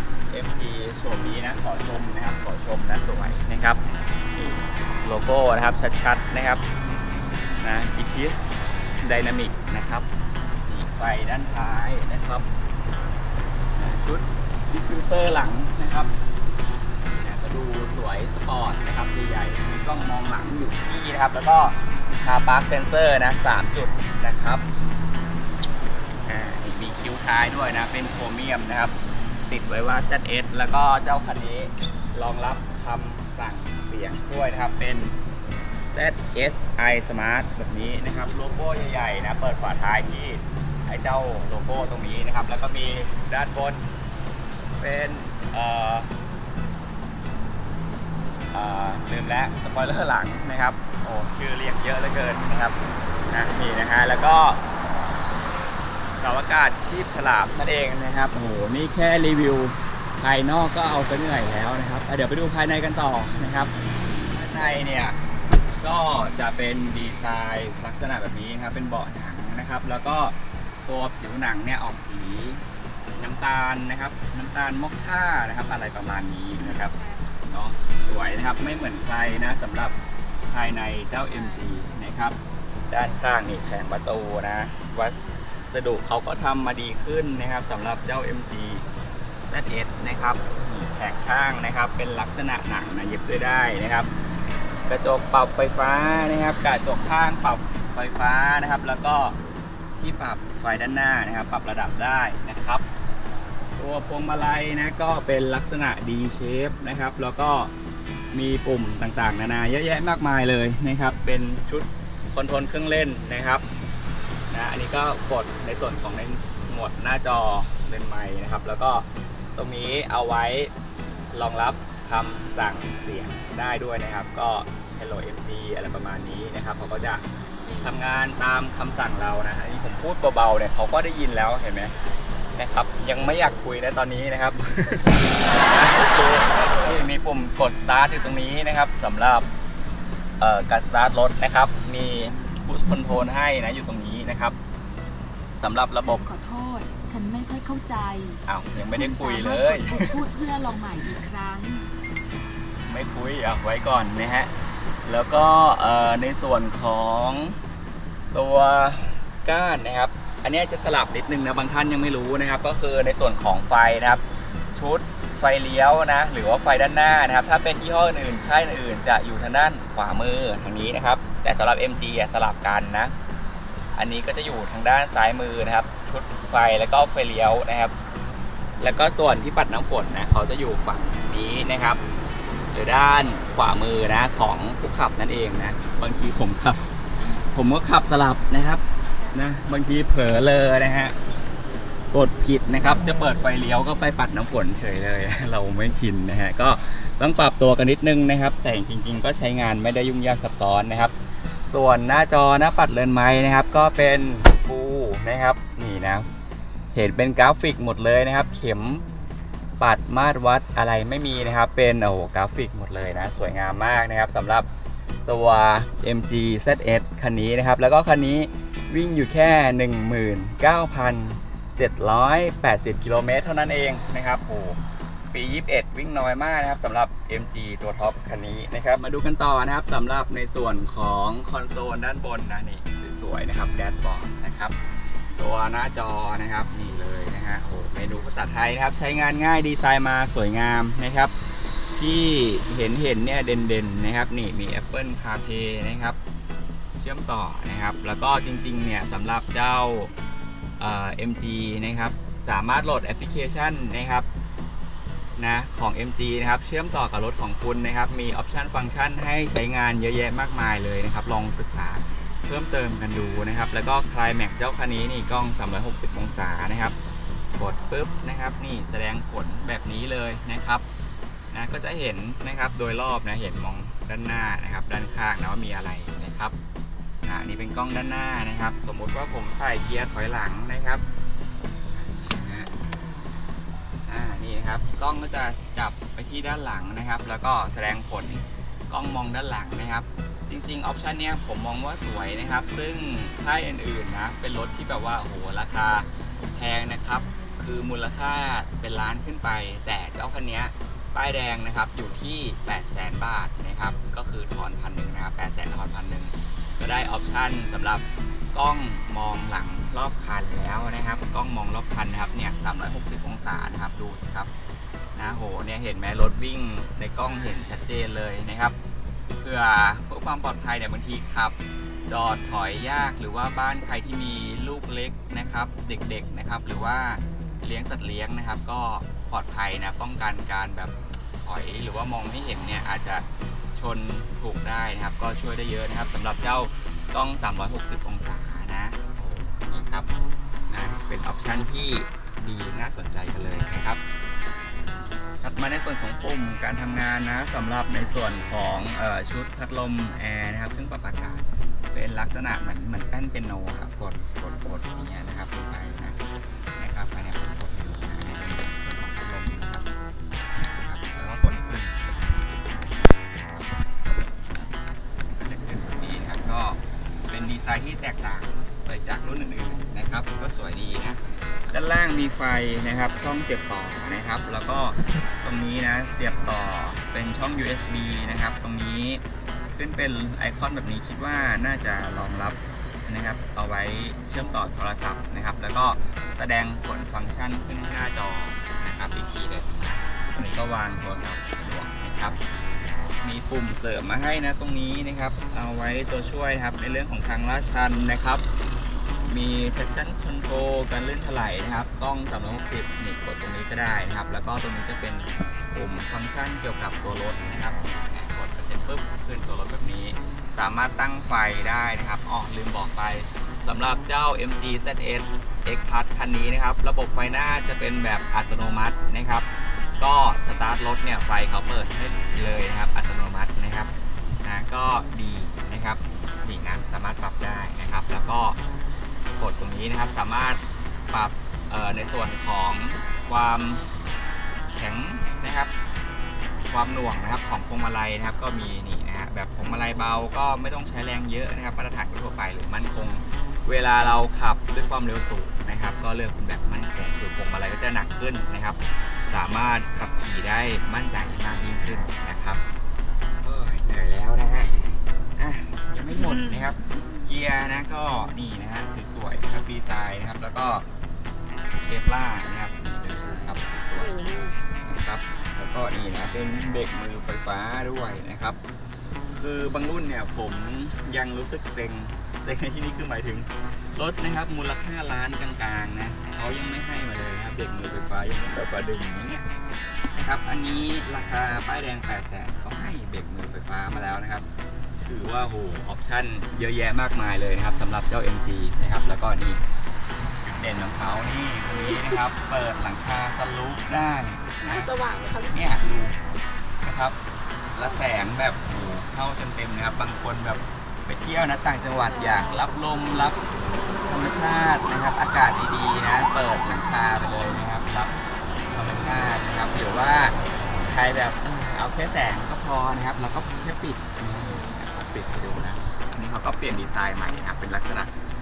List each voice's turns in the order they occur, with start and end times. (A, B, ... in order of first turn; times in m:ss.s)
0:00.3-0:03.8 A
0:04.4-0:06.6 A
0:07.6-0:08.4 A
0:09.0-0:10.1 A
0:10.7-0:12.5 A
0:13.8-0:16.1 A
0:17.1-0:24.6 A
0:26.3-0:28.9 A
0:29.5-0:35.1 A
0:35.9-0:43.9 A
0:44.8-0:46.1 A
0:48.5-0:52.8 A
0:53.3-0:54.7 A
0:56.2-1:03.7 A
1:04.3-1:05.2 A
1:05.8-1:10.4 A
1:10.9-1:12.6 A
1:13.2-1:16.9 A
1:16.6-1:17.2 B
1:17.5-1:20.0 A
1:20.5-1:22.4 A
1:21.3-1:21.6 B
1:22.9-1:25.2 A
1:25.2-1:25.4 B
1:25.7-1:28.8 A
1:29.5-1:34.1 A
1:34.9-1:39.4 A
1:40.0-1:42.8 A
1:43.8-1:47.7 A
1:48.3-1:53.6 A
1:54.5-1:59.0 A
1:59.6-2:00.7 A
2:01.3-2:07.2 A
2:07.6-2:08.0 B
2:07.8-2:11.9 A
2:12.6-2:19.5 A
2:20.4-2:24.6 A
2:25.6-2:26.3 A
2:26.0-2:31.9 C
2:28.5-2:30.2 A
2:32.9-2:34.5 A
2:35.0-2:37.6 A
2:38.3-2:44.2 A
2:44.8-2:53.1 A
2:53.9-2:57.9 A
2:58.8-3:02.0 A
3:02.7-3:06.8 A
3:07.5-3:11.2 A
3:12.1-3:21.1 A
3:21.7-3:26.3 A
3:26.9-3:29.0 A
3:29.8-3:34.7 A
3:35.3-3:44.8 A
3:45.3-3:54.8 A
3:55.4-4:01.3 A
4:02.0-4:06.2 A
4:06.9-4:10.1 A
4:10.8-4:14.3 A
4:15.4-4:27.0 A
4:27.6-4:30.8 A
4:31.5-4:36.5 A
4:37.3-4:41.0 A
4:42.0-4:42.7 A
4:44.1-5:14.5 A
5:15.2-5:18.8 A
5:19.4-5:21.6 A
5:22.1-5:40.1 A
5:40.7-5:44.0 A
5:45.4-5:56.2 A
5:56.8-5:59.9 A
6:00.6-6:02.4 A
6:03.3-6:04.7 A
6:05.3-6:19.2 A
6:19.7-6:32.4 A
6:33.2-6:38.4 A
6:39.2-6:59.5 A
7:00.0-7:03.9 A
7:04.4-7:08.6 A
7:09.4-7:13.8 A
7:14.7-7:15.7 A
7:16.7-7:28.8 A
7:29.3-7:32.6 A
7:33.4-7:34.8 A
7:35.4-7:40.8 A
7:36.1-7:36.7 B
7:41.8-7:44.2 A
7:43.2-7:44.6 B
7:44.8-7:48.6 A
7:49.3-7:59.4 A
8:00.1-8:04.4 A
8:05.0-8:09.6 A
8:10.4-8:14.9 A
8:11.7-8:12.2 B
8:14.6-8:15.6 B
8:15.5-8:16.2 A
8:16.8-8:17.2 A
8:17.7-8:23.4 A
8:22.0-8:22.7 B
8:24.1-8:28.2 A
8:28.7-8:38.1 A
8:34.4-8:34.7 B